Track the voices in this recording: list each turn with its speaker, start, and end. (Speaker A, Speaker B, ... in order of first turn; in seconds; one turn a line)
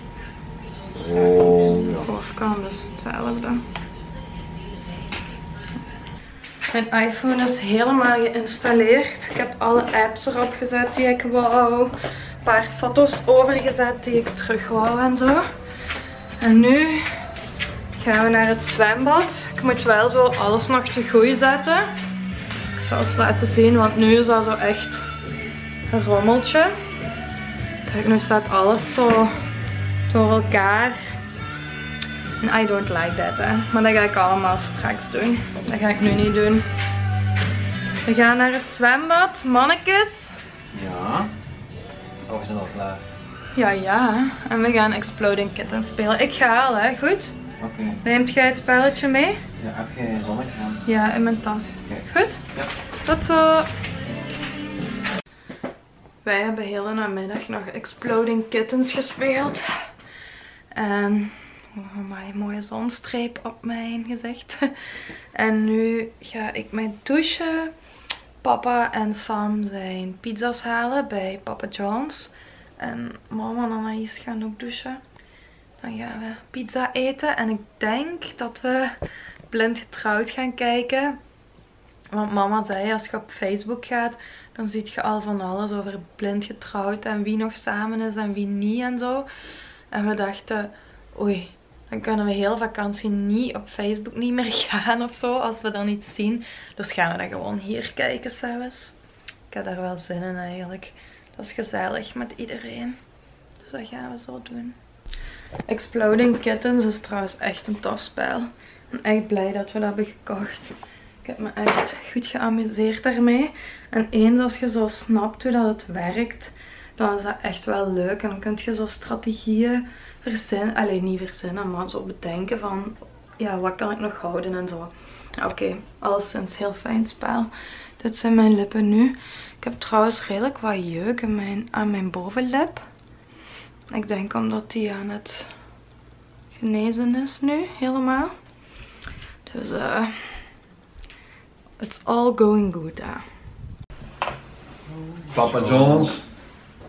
Speaker A: 1.0-2.1
Speaker B: 1.2-3.6
Speaker B: 6.7-15.4
Speaker B: 16.4-17.1
Speaker B: 17.9-21.9
Speaker B: 22.7-25.1
Speaker B: 25.9-26.7
Speaker B: 27.9-29.3
Speaker B: 30.1-31.1
Speaker B: 32.4-36.7
Speaker B: 38.0-40.4
Speaker C: 40.7-41.3
Speaker C: 42.3-43.0
Speaker B: 43.5-47.4
Speaker C: 47.6-48.0
Speaker B: 48.0-49.4
Speaker C: 49.6-50.8
Speaker B: 50.9-52.4
Speaker B: 53.0-53.7
Speaker B: 56.2-59.7
Speaker B: 60.7-64.7
Speaker B: 65.3-67.7
Speaker B: 68.4-75.0
Speaker B: 75.8-79.0
Speaker B: 79.5-81.2
Speaker B: 82.1-89.3
Speaker B: 89.9-99.0
Speaker B: 99.5-103.0
Speaker B: 103.6-104.8
Speaker B: 105.7-132.8
Speaker B: 133.9-135.5
Speaker B: 136.5-138.3
Speaker B: 139.4-140.4
Speaker B: 141.8-143.2
Speaker C: 145.0-145.8
Speaker A: 145.3-146.2